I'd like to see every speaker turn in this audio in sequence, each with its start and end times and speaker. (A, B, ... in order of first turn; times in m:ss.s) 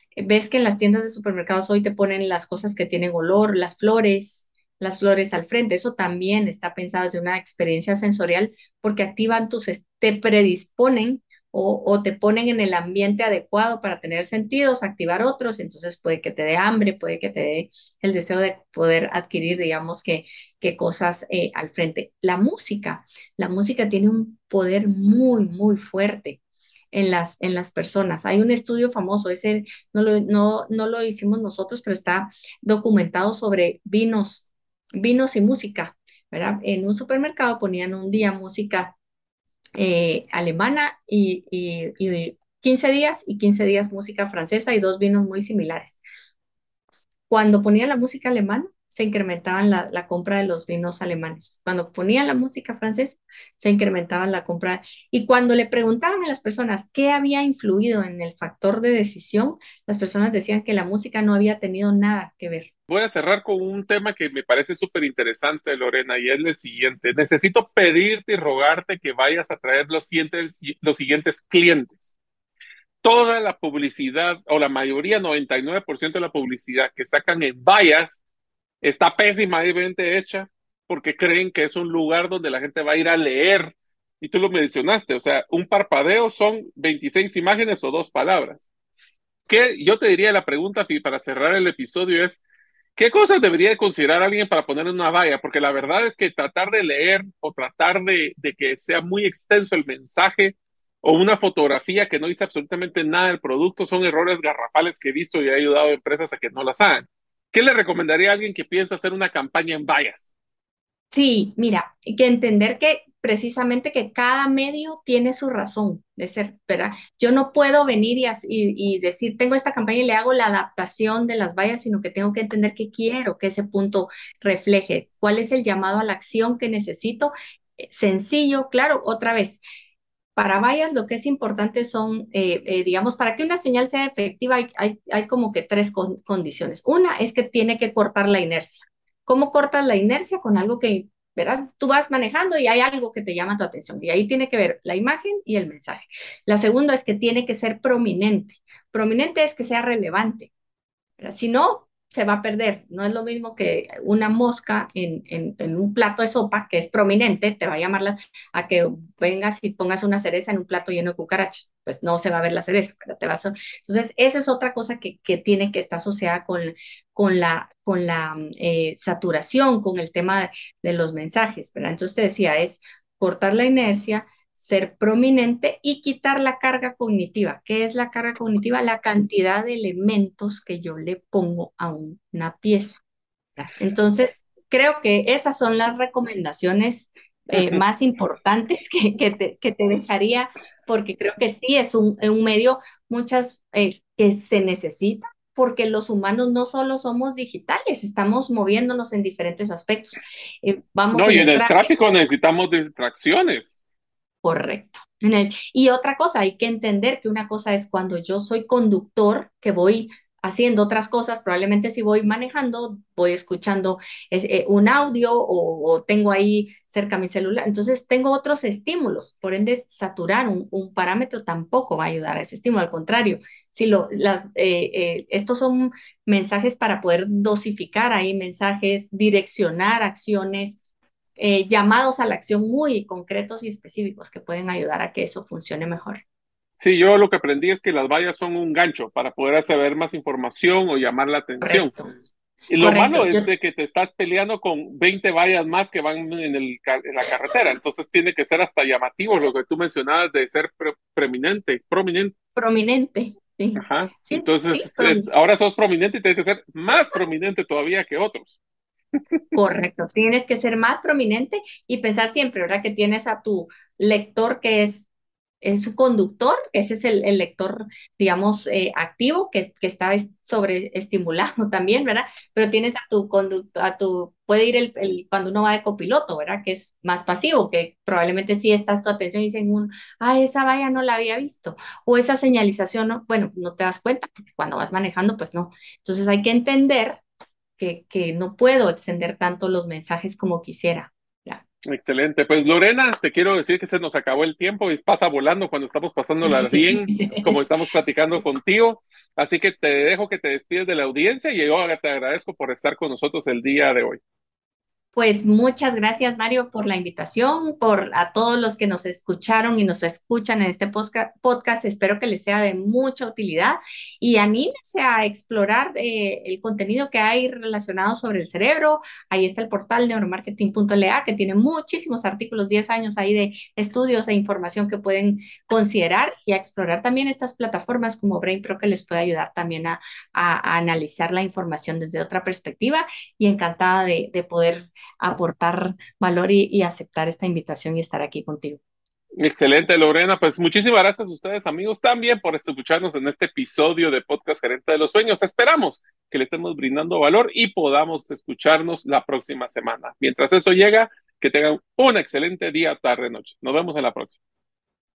0:00.2-0:26.4 A
0:26.9-0:39.0 A
0:39.8-0:46.0 A
0:47.3-1:02.7 A
1:02.9-1:12.2 B
1:13.0-1:18.2 B
1:18.8-1:28.7 B
1:29.5-1:32.4 B
1:33.0-1:50.3 B
1:51.1-2:09.6 A
2:10.4-2:30.5 A
2:31.2-3:03.0 A
3:03.6-3:22.0 A
3:21.1-3:23.8 B
3:24.4-3:50.8 A
3:51.4-3:56.2 A
3:56.8-4:01.9 B
4:01.6-4:02.2 A
4:02.7-4:12.4 B
4:02.8-4:03.5 A
4:12.6-4:15.3 A
4:13.8-4:18.6 B
4:19.5-4:25.1 A
4:25.6-4:47.2 A
4:47.8-4:51.6 A
4:51.9-5:04.2 B
4:56.5-4:57.5 A
5:05.2-5:38.8 A
5:39.4-5:54.4 B